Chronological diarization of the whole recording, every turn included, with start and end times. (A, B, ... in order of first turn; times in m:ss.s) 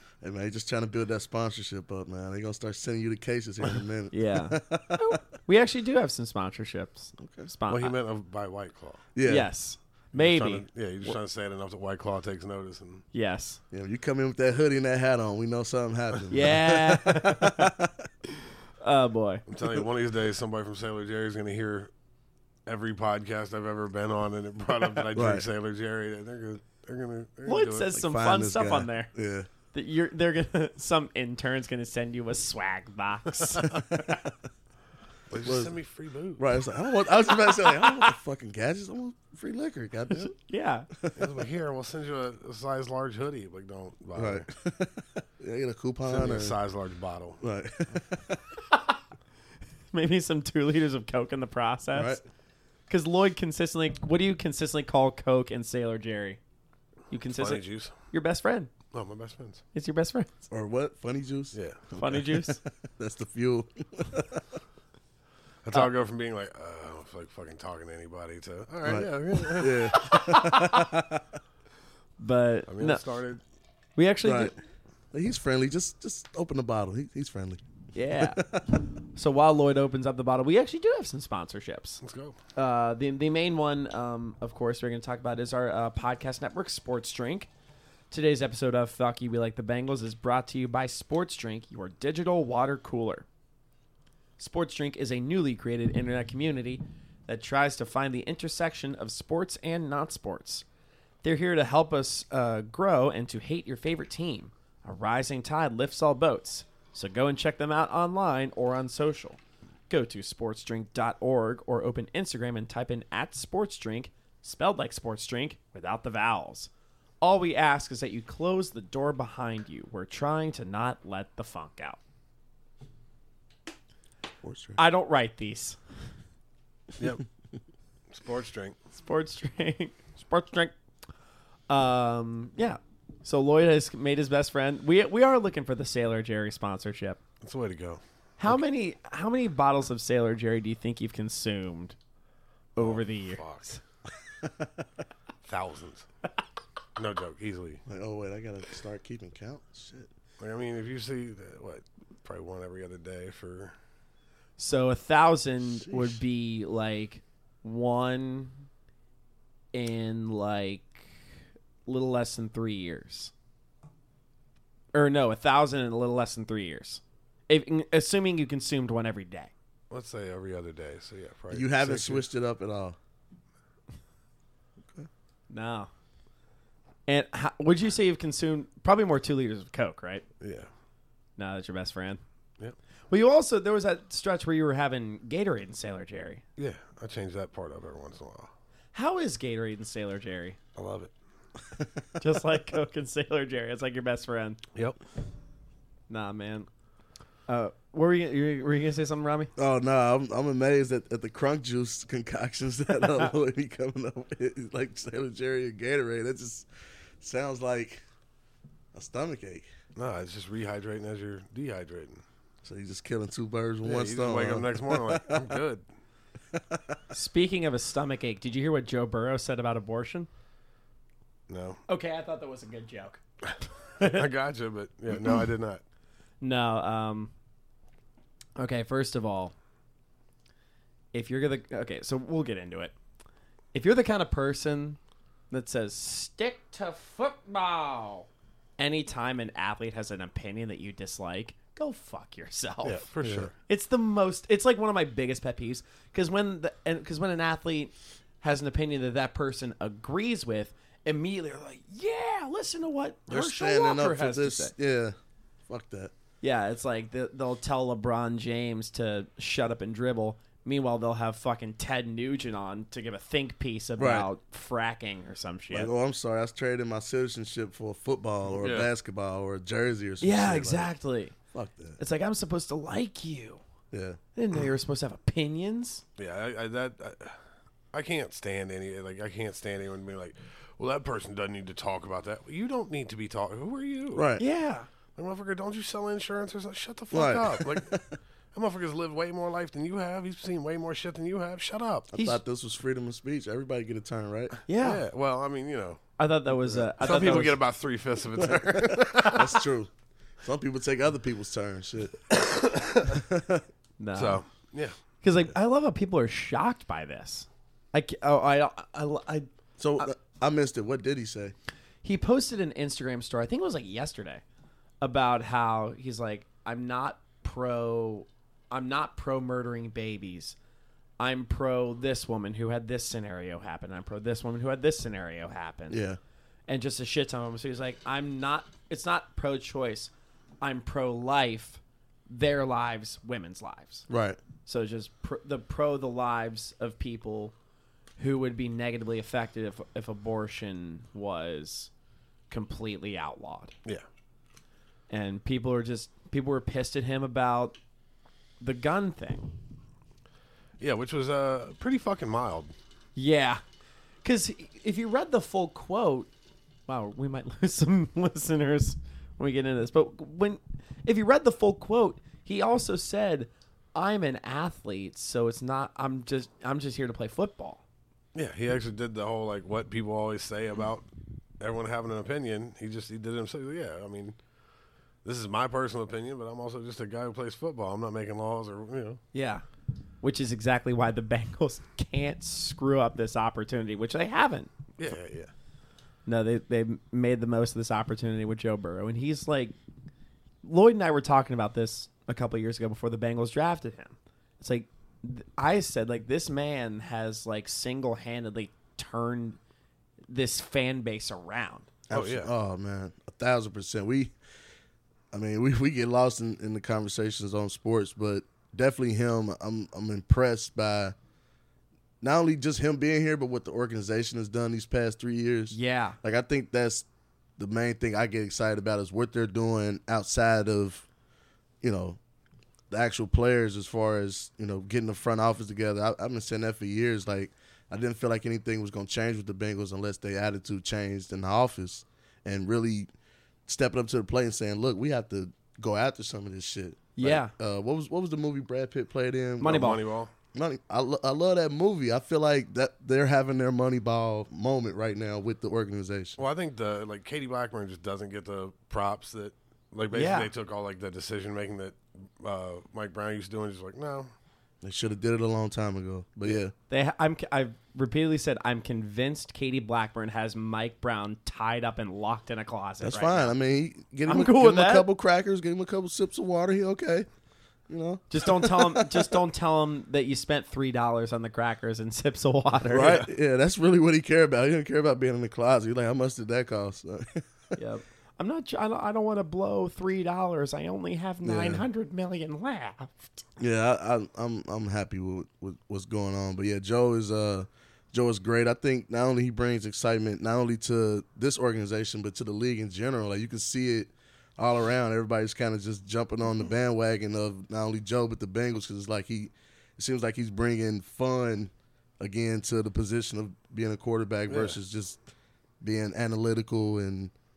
0:00.2-0:05.0 A
0:04.1-0:08.0 B
0:07.2-0:07.5 A
0:07.7-0:09.0 C
0:09.1-0:09.5 A
0:09.2-0:11.2 B
0:10.1-0:13.0 C
0:13.1-0:13.6 B
0:13.7-0:18.1 A
0:16.3-0:17.7 B
0:18.8-0:19.4 B
0:19.5-0:21.9 C
0:22.6-0:27.9 C
0:25.1-0:25.5 A
0:27.4-0:29.1 B
0:27.9-0:29.5 A
0:29.7-0:34.2 B
0:33.9-0:34.2 A
0:35.3-0:36.5 C
0:35.4-0:35.7 A
0:36.4-0:40.3 A
0:40.2-0:40.9 B
0:41.2-0:44.5 C
0:44.1-0:46.6 A
0:46.0-0:47.4 C
0:47.4-0:48.4 A
0:49.9-0:52.2 B
0:51.9-0:52.2 A
0:52.9-0:56.4 B
0:57.1-0:58.7 B
0:57.3-0:57.9 C
0:58.9-0:59.6 C
0:59.7-1:00.4 B
1:00.5-1:04.5 A
1:01.5-1:01.9 C
1:02.0-1:02.6 B
1:05.6-1:10.0 C
1:08.8-1:11.3 A
1:09.9-1:10.9 B
1:12.2-1:13.0 B
1:12.7-1:13.4 C
1:14.0-1:14.5 B
1:14.2-1:14.5 A
1:15.1-1:17.6 A
1:17.9-1:18.4 B
1:18.2-1:18.6 A
1:19.1-1:22.0 B
1:22.0-1:22.4 C
1:22.6-1:27.5 B
1:28.1-1:33.2 B
1:34.4-1:40.6 B
1:41.2-1:49.4 B
1:49.9-1:56.7 B
1:57.2-2:02.0 B
2:04.4-2:04.8 A
2:04.8-2:05.8 B
2:08.1-2:08.8 C
2:08.9-2:10.7 B
2:11.7-2:17.2 B
2:17.4-2:18.0 C
2:18.4-2:22.0 B
2:22.8-2:23.8 C
2:22.8-2:23.8 B
2:24.4-2:24.7 A
2:25.4-2:26.0 C
2:27.0-2:27.8 C
2:27.9-2:30.1 A
2:30.4-2:33.7 C
2:34.6-2:38.6 B
2:35.6-2:36.2 A
2:39.7-2:41.1 B
2:41.8-2:43.3 B
2:44.9-2:49.5 B
2:49.9-2:52.2 C
2:51.5-2:53.0 A
2:55.5-2:55.9 B
2:57.1-3:00.2 B
3:00.4-3:00.7 C
3:01.4-3:02.2 B
3:03.1-3:06.4 B
3:06.6-3:08.5 C
3:08.9-3:10.6 B
3:10.8-3:11.1 C
3:12.2-3:14.6 B
3:16.1-3:16.7 B
3:17.5-3:19.5 B
3:19.6-3:26.7 A
3:27.2-3:28.0 A
3:28.9-3:29.7 A
3:30.0-3:32.2 C
3:32.6-3:35.6 A
3:33.8-3:35.8 C
3:36.5-3:37.0 A
3:37.1-3:40.3 B
3:41.5-3:41.8 C
3:41.9-3:43.2 B
3:44.0-3:44.2 B
3:44.0-3:45.8 C
3:46.4-3:47.3 B
3:48.6-3:49.5 B
3:51.1-3:52.9 B
3:53.7-3:55.0 B
3:55.5-3:58.3 B
3:58.8-4:03.0 B
4:02.8-4:03.5 C
4:03.7-4:14.7 B
4:13.3-4:15.2 A
4:15.7-4:16.1 A
4:16.4-4:25.9 B
4:24.0-4:24.3 A
4:25.7-4:30.9 A
4:28.5-4:28.9 C
4:30.2-4:31.3 B
4:31.5-4:32.0 A
4:32.0-4:33.6 B
4:33.9-4:34.2 A
4:34.4-4:36.0 B
4:36.2-4:37.4 C
4:37.9-4:44.3 C
4:44.1-4:44.4 A
4:44.4-4:44.9 B
4:45.2-4:48.0 C
4:47.1-4:48.1 A
4:48.5-4:52.1 C
4:52.1-4:54.6 A
4:52.1-4:52.4 B
4:54.7-4:55.0 B
4:54.8-4:56.0 C
4:56.2-4:57.6 B
4:56.6-4:56.9 A
4:57.0-4:59.6 C
4:58.4-4:59.9 A
5:00.4-5:02.2 A
5:02.3-5:03.2 C
5:03.1-5:03.6 A
5:04.0-5:04.4 B
5:04.1-5:05.0 C
5:05.2-5:09.5 B
5:09.8-5:11.5 A
5:12.0-5:14.4 B
5:15.0-5:20.6 B
5:21.2-5:26.0 B
5:25.9-5:26.2 A
5:26.7-5:34.1 B
5:34.1-5:34.4 A
5:34.6-5:37.5 B
5:38.2-5:41.9 B
5:42.5-5:43.7 B
5:45.1-5:47.8 B
5:48.6-5:49.5 B
5:50.8-5:52.7 C
5:53.2-5:53.6 B
5:54.2-5:56.3 B
5:56.9-6:07.8 B
6:08.3-6:11.0 C
6:11.6-6:14.4 C
6:15.2-6:19.2 C
6:19.3-6:19.6 B
6:20.2-6:24.7 B
6:25.0-6:25.5 C
6:26.2-6:29.7 B
6:30.6-6:39.6 B
6:40.3-6:41.9 B
6:42.1-6:44.3 A
6:42.1-6:42.5 C
6:45.3-6:51.1 A
6:52.2-6:57.0 A
6:55.7-6:56.2 B
6:57.6-7:01.0 A
7:01.8-7:02.2 A
7:02.9-7:13.1 A
7:13.7-7:19.8 A
7:17.2-7:17.5 B
7:19.6-7:20.0 B
7:19.6-7:20.3 C
7:20.5-7:26.4 A
7:26.4-7:34.3 C
7:30.1-7:30.5 B
7:34.8-7:36.7 A
7:36.9-7:43.5 B
7:43.0-7:47.3 A
7:44.3-7:45.1 B
7:47.9-7:49.3 A
7:48.3-7:53.2 B
7:52.9-7:57.8 A
7:53.0-7:53.3 C
7:57.8-8:03.3 B
8:01.4-8:01.8 A
8:03.6-8:25.2 A
8:24.5-8:24.8 C
8:25.8-8:27.3 A